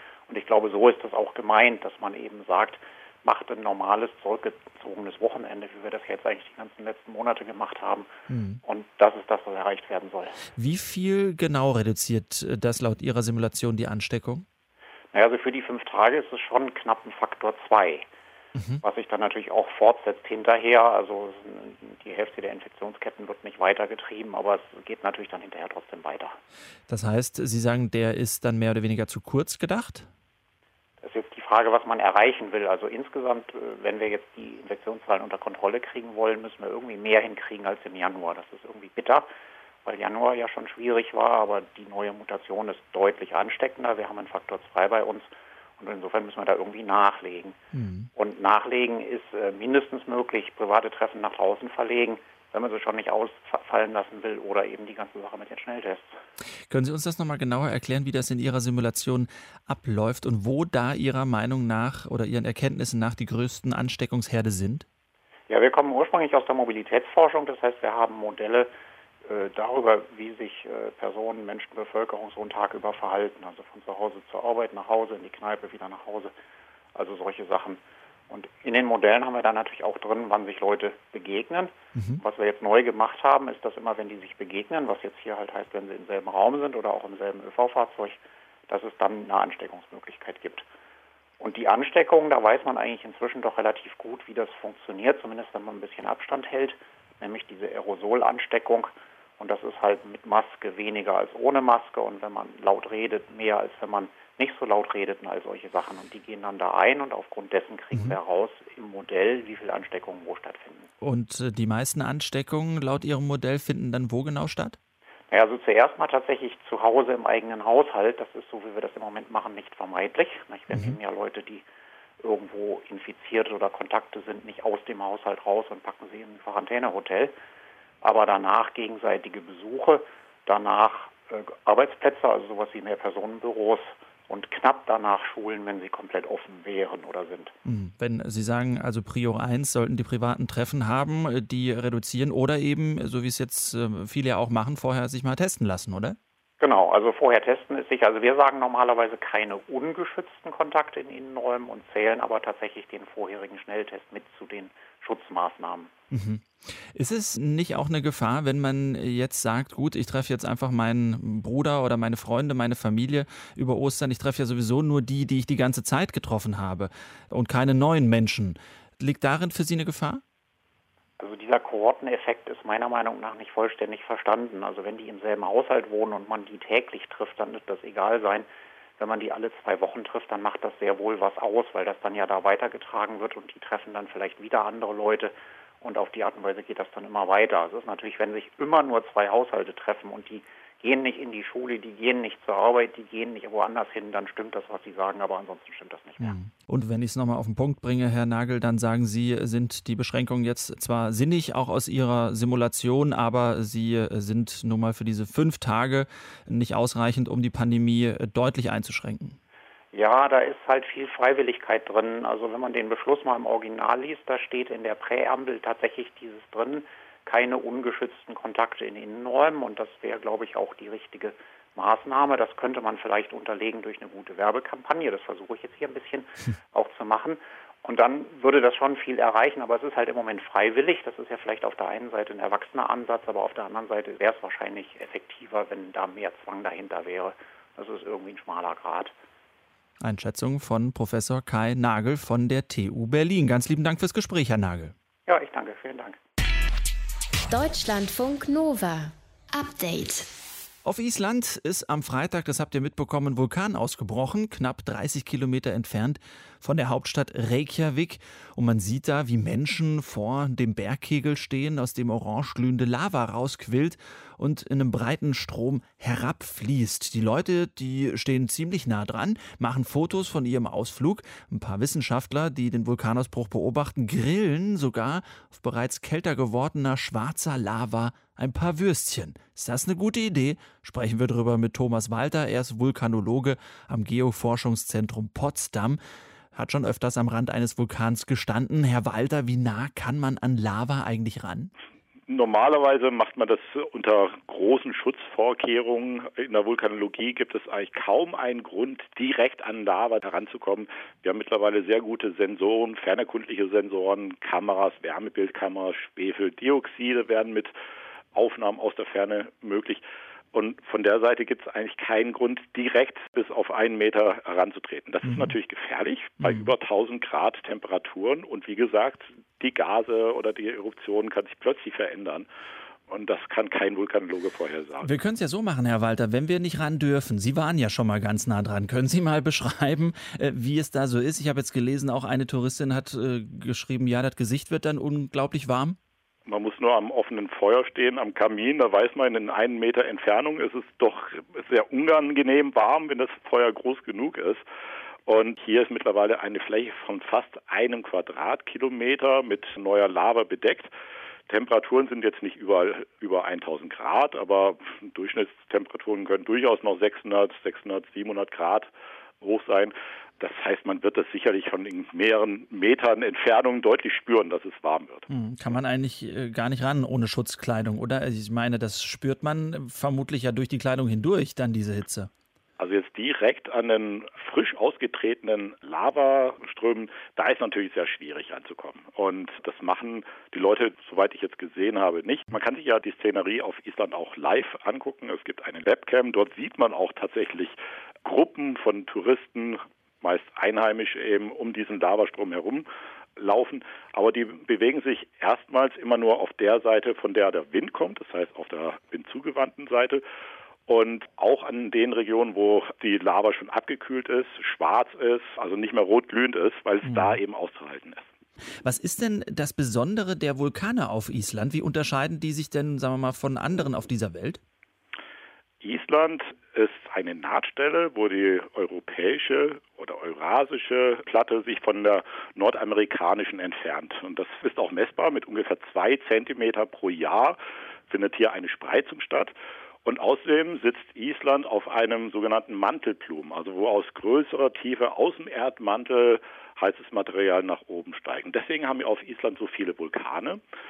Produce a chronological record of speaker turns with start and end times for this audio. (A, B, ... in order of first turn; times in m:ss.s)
0:00.3-0:08.1 A
0:08.3-0:08.6 B
0:08.6-0:10.4 A
0:10.6-0:14.4 B
0:15.1-0:18.1 A
0:18.5-0:18.8 B
0:18.8-0:26.4 A
0:26.9-0:30.1 B
0:31.0-0:39.3 A
0:39.8-0:47.6 A
0:47.7-0:48.1 B
0:48.1-0:56.2 A
0:56.7-1:04.8 B
1:05.5-1:08.7 A
1:09.2-1:16.3 A
1:16.9-1:30.7 A
1:21.9-1:22.2 B
1:31.4-1:50.9 A
1:51.0-1:54.8 B
1:55.3-2:01.6 A
2:00.7-2:01.0 B
2:02.2-2:07.3 A
2:08.0-2:17.5 A
2:17.6-2:26.2 B
2:26.6-2:35.9 A
2:36.1-2:50.2 B
2:51.2-2:58.5 A
2:59.0-3:16.4 A
3:16.2-3:29.4 B
3:29.9-3:59.1 A
4:00.0-4:04.9 B
4:05.3-4:06.2 A
4:07.5-4:10.3 C
4:10.8-4:46.0 B
4:46.5-4:51.7 B
4:52.3-5:07.7 D
5:08.3-5:22.4 D
5:15.2-5:15.5 B
5:16.4-5:16.7 B
5:23.1-5:25.1 D
5:25.0-5:36.0 B
5:36.5-5:44.6 D
5:45.3-5:50.9 D
5:51.5-5:58.9 D
5:59.4-6:05.3 D
6:05.3-6:12.3 B
6:12.8-6:32.8 D
6:33.4-6:40.2 D
6:40.9-6:48.2 D
6:47.0-6:47.4 B
6:48.8-6:54.6 B
6:55.8-7:07.6 D
7:08.1-7:09.5 D
7:10.0-7:20.6 D